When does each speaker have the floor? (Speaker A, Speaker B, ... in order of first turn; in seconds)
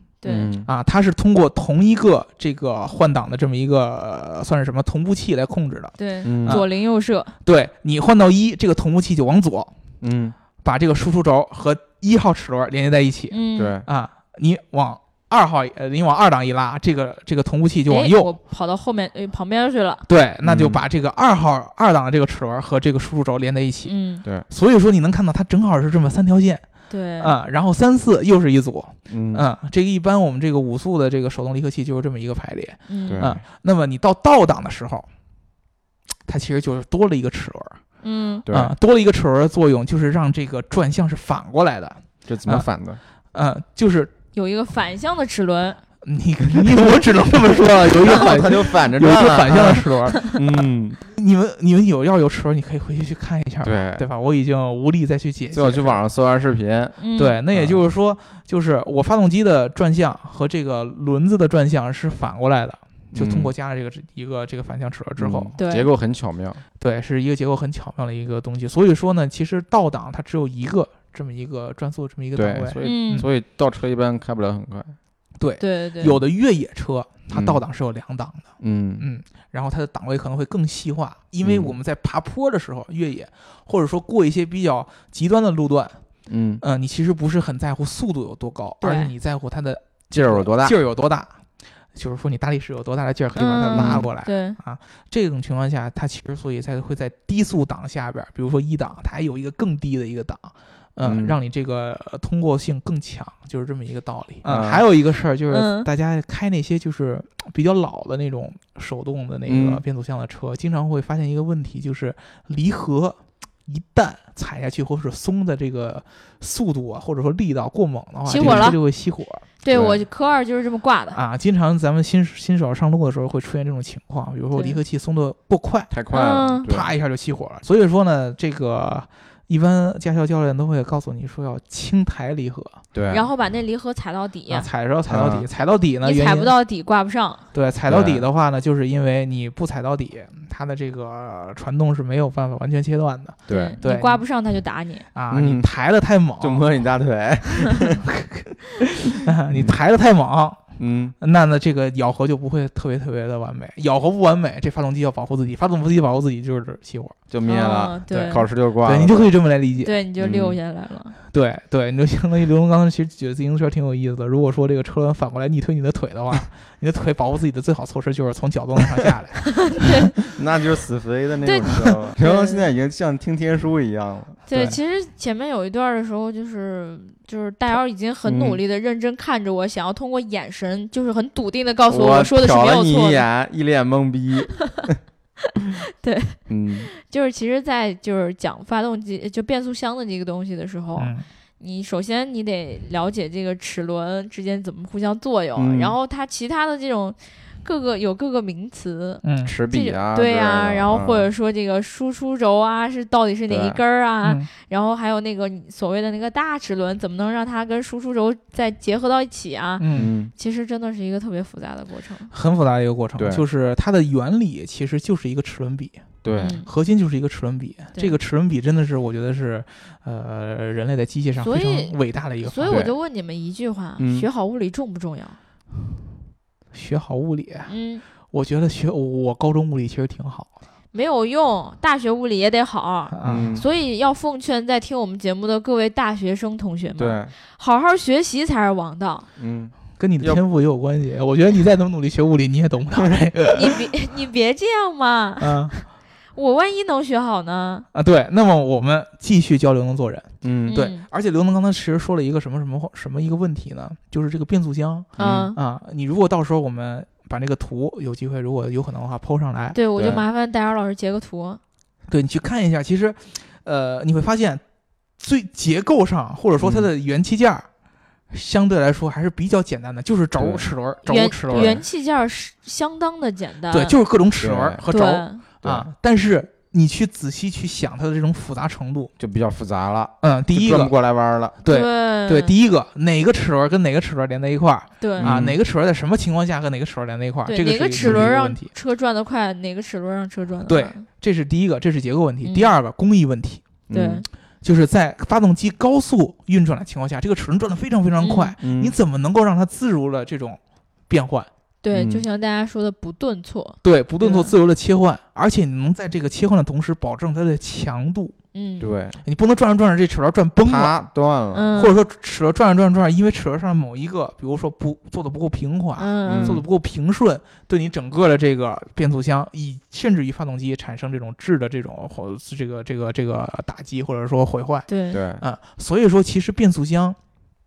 Speaker A: 0.2-0.6, 6.0-7.3, 13.3-13.8, 17.9-20.0, 23.8-24.2, 26.9-27.4, 32.9-33.2, 38.0-38.4, 44.3-45.8, 57.0-57.4, 65.6-65.9, 72.8-73.2, 75.6-76.2, 88.8-89.1, 93.4-94.6, 105.5-105.9, 118.2-118.8, 119.6-121.2, 124.5-124.8, 126.1-126.7, 133.1-134.7, 136.0-137.4, 143.5-145.1, 157.4-158.4, 159.8-161.2, 169.5-170.1, 171.4-172.7, 174.5-183.2, 186.0-186.4, 186.9-212.3, 216.3-216.7, 221.4-225.4, 227.7-228.0, 230.9-239.3, 243.5-245.8, 246.3-247.9, 250.7-251.1, 255.2-255.6, 259.7-261.6, 271.1-273.9, 274.9-275.4, 281.6-282.5, 285.0-285.3, 287.4-291.0, 292.4-292.7, 293.9-294.3, 298.2-298.6, 301.8-304.5, 308.5-308.9, 311.5-312.0, 315.9-316.6, 324.9-325.2
Speaker B: 0.2-0.7, 6.2-6.6, 10.0-10.4, 13.6-13.9, 20.4-20.8, 29.1-29.4, 33.1-33.4, 38.5-38.7, 42.3-43.0, 46.8-51.0, 53.6-54.0, 55.5-57.0, 57.5-57.8, 63.1-63.5, 65.2-66.6, 72.4-75.0, 77.3-77.6, 78.6-79.0, 81.4-81.8, 86.3-86.6, 90.1-90.7, 93.7-94.1, 101.0-101.4, 104.4-104.8, 109.5-109.8, 118.3-118.8, 119.7-120.0, 125.9-126.9, 132.9-133.3, 135.1-135.5, 137.9-138.3, 143.5-143.8, 145.3-145.7, 146.4-148.0, 150.8-151.2, 157.3-159.3, 160.2-160.6, 170.3-174.7, 178.2-178.6, 181.9-184.9, 186.5-186.9, 195.6-196.0, 199.4-201.3, 203.5-203.8, 209.9-210.3, 213.2-213.4, 216.2-216.6, 222.7-222.9, 224.0-224.3, 233.2-233.7, 237.0-237.3, 239.4-240.4, 250.4-250.7, 255.2-255.5, 259.9-260.2, 266.6-266.9, 270.4-270.6, 271.5-271.8, 274.4-274.8, 275.6-275.9, 279.2-281.6, 285.2-285.6, 288.0-288.3, 293.9-294.2, 298.6-298.9, 301.9-302.3, 308.8-309.2, 310.6-311.7, 316.3-316.6, 325.1-325.4
Speaker C: 0.6-6.7, 7.4-9.7, 10.6-18.4, 20.1-23.9, 24.5-26.6, 27.2-35.1, 36.3-37.8, 38.5-42.7, 43.3-44.1, 46.0-56.0, 57.2-65.5, 66.8-73.2, 75.4-78.5, 79.0-86.0, 86.6-91.3, 91.9-119.5, 121.1-126.0, 126.7-132.8, 134.5-136.5, 137.5-144.2, 145.1-146.7, 148.1-150.6, 151.2-157.2, 158.1-160.0, 161.3-169.6, 174.5-174.7, 191.0-191.2, 199.2-199.5, 204.2-204.5, 209.8-210.1, 212.3-222.8, 226.7-227.7, 228.3-230.5, 233.1-233.6, 240.0-243.9, 245.4-245.8, 247.9-260.1, 262.1-264.6, 265.2-267.7, 268.3-271.8, 273.7-279.1, 280.2-280.9, 281.6-288.7, 290.6-293.7, 294.6-301.5, 303.8-308.4, 309.2-310.9, 311.7-324.9, 325.4-327.2